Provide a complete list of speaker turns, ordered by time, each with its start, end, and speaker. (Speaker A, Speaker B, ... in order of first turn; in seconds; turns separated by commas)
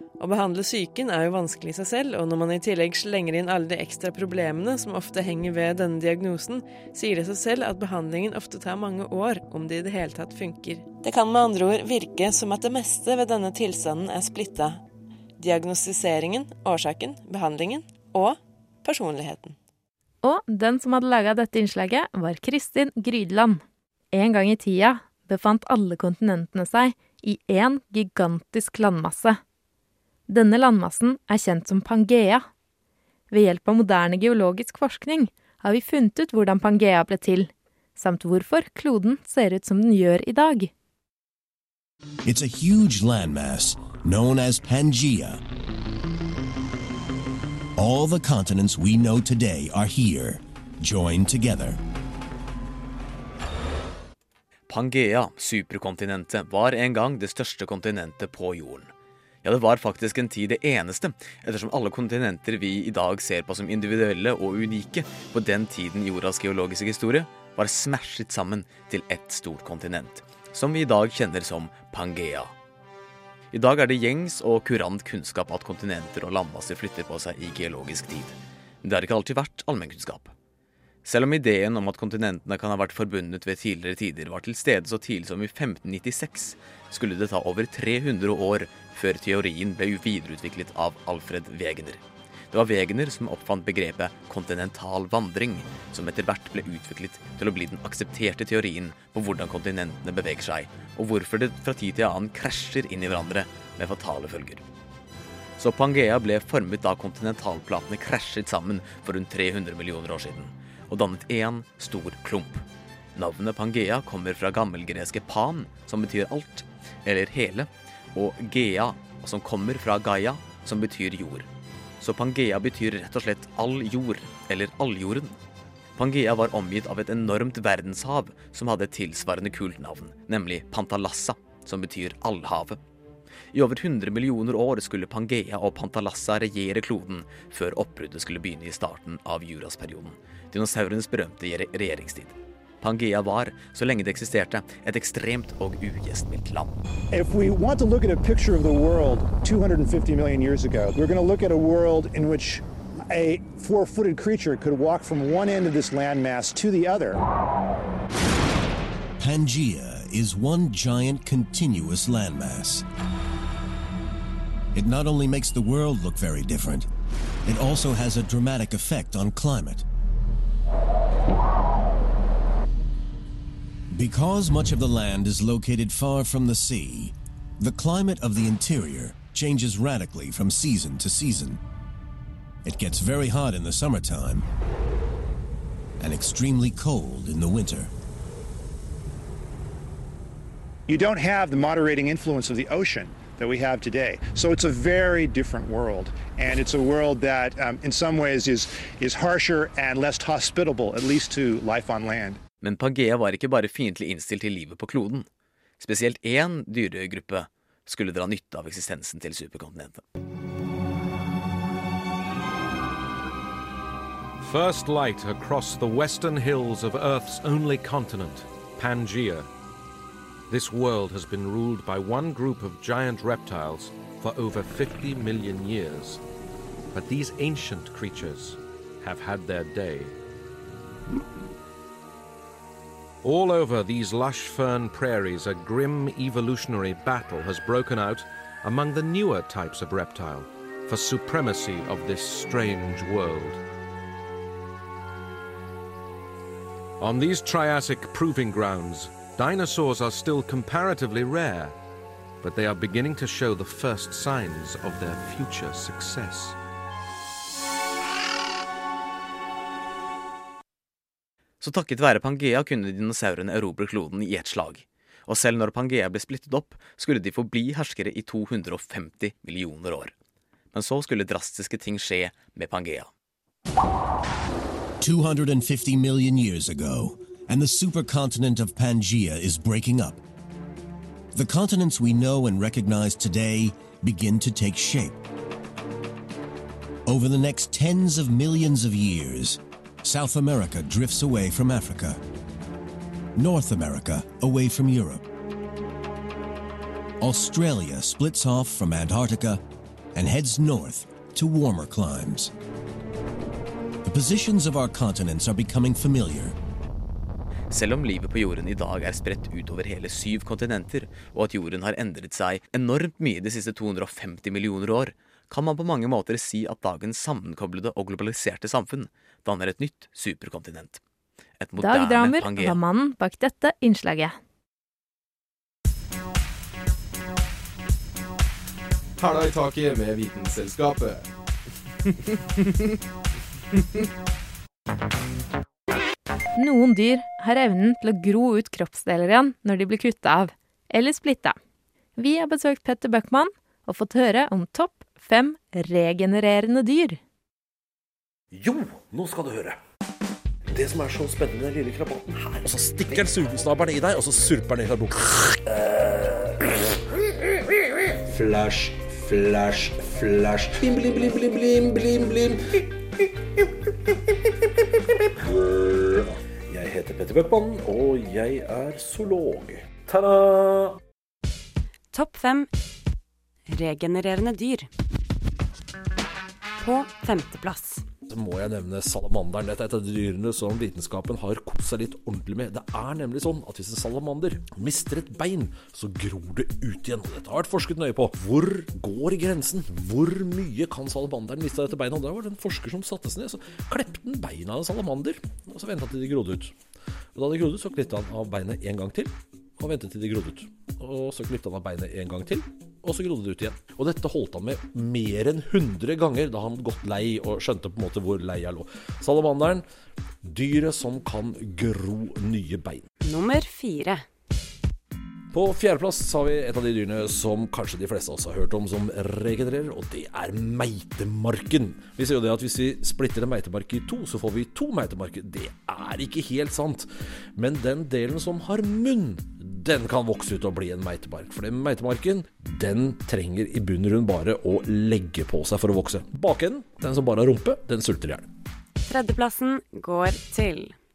Speaker A: 0.2-14.8, Speaker A: 15.4-19.6, Speaker B: 20.2-23.6, Speaker B: 24.1-29.4, Speaker B: 30.3-32.5, Speaker B: 33.3-40.7, Speaker C: 42.2-45.4, Speaker C: 47.8-51.8, Speaker D: 54.7-58.9, Speaker D: 59.4-72.5, Speaker D: 73.5-80.3, Speaker D: 81.0-92.0, Speaker D: 92.5-104.6, Speaker D: 105.6-112.6, Speaker D: 113.2-121.5, Speaker D: 122.0-125.4, Speaker D: 126.0-132.8, Speaker D: 133.5-146.8, Speaker E: 147.1-157.2, Speaker C: 159.2-162.8, Speaker C: 164.7-166.9, Speaker C: 167.5-169.8, Speaker C: 173.9-181.6, Speaker C: 182.6-184.5, Speaker C: 186.0-187.9, Speaker E: 190.9-202.4, Speaker D: 202.6-205.3, Speaker D: 205.8-210.0, Speaker F: 214.4-219.5, Speaker F: 220.5-226.2, Speaker F: 226.9-230.2, Speaker F: 233.2-243.6, Speaker F: 247.0-251.8, Speaker F: 252.4-256.6, Speaker D: 261.6-270.1, Speaker D: 270.7-273.1, Speaker C: 275.0-280.2, Speaker C: 281.3-285.2, Speaker C: 287.1-292.2, Speaker C: 293.4-295.2, Speaker C: 297.2-299.6, Speaker C: 300.1-302.5, Speaker C: 304.0-306.6, Speaker D: 307.7-321.0, Speaker D: 321.6-322.8, Speaker B: 321.8-324.4, Speaker G: 329.2-331.3, Speaker B: 336.6-341.6, Speaker B: 342.2-347.2, Speaker H: 348.5-349.8, Speaker H: 350.7-356.7, Speaker H: 358.2-363.9, Speaker H: 365.2-371.0, Speaker I: 372.1-372.7, Speaker I: 373.7-374.9, Speaker I: 376.8-378.1, Speaker H: 378.3-396.8, Speaker H: 397.3-409.9, Speaker H: 410.4-413.1, Speaker I: 413.2-414.2, Speaker H: 415.5-438.5, Speaker I: 439.1-441.0